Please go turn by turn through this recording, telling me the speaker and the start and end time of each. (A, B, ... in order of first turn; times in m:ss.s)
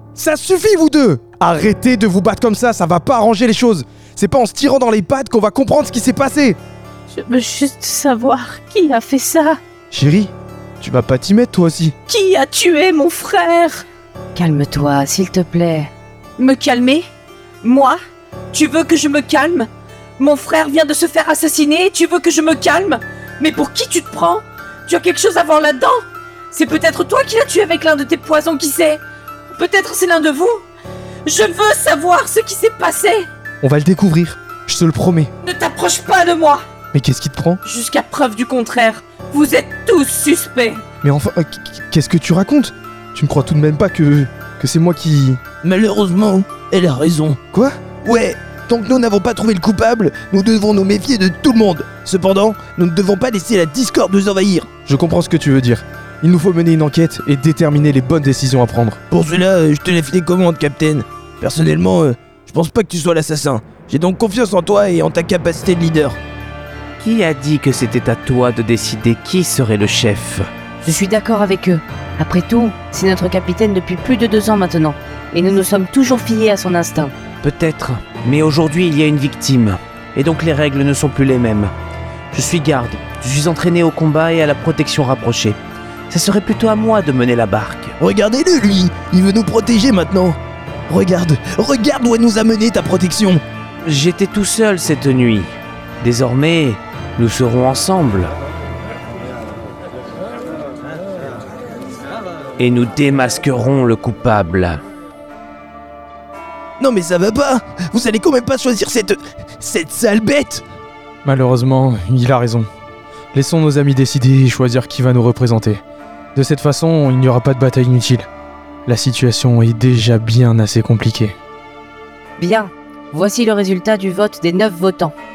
0:00.2-0:06.6 A
0:07.1-0:09.6 B
0:09.9-0:12.0 A
0:12.1-0:13.8 B
0:14.3-0:15.9 C
0:16.4-0:17.0 B
0:17.6-0:18.0 B
0:18.5-0:19.7 B
0:20.2-0:26.0 B
0:26.5-0:30.6 B
0:31.3-0:33.3 B
0:33.6-0:35.3 A
0:35.4-0:36.6 B
0:36.9-0:37.6 A
0:37.6-0:40.8 B
0:41.0-0:45.4 A
0:45.6-0:47.4 D
0:47.5-0:47.8 A
0:48.0-0:54.7 D
0:54.9-0:59.0 A
0:59.1-1:06.2 D
1:07.0-1:10.5 E
1:10.8-1:17.1 C
1:17.4-1:21.7 E
1:22.3-1:25.6 E
1:26.1-1:28.0 E
1:28.0-1:30.4 D
1:30.9-1:33.4 D
1:33.8-1:38.3 E
1:42.6-1:44.8 E
1:46.8-1:50.6 D
1:51.2-1:52.7 A
1:53.3-1:55.8 A
1:56.4-1:58.3 A
1:58.9-2:01.3 A
2:02.4-2:05.2 C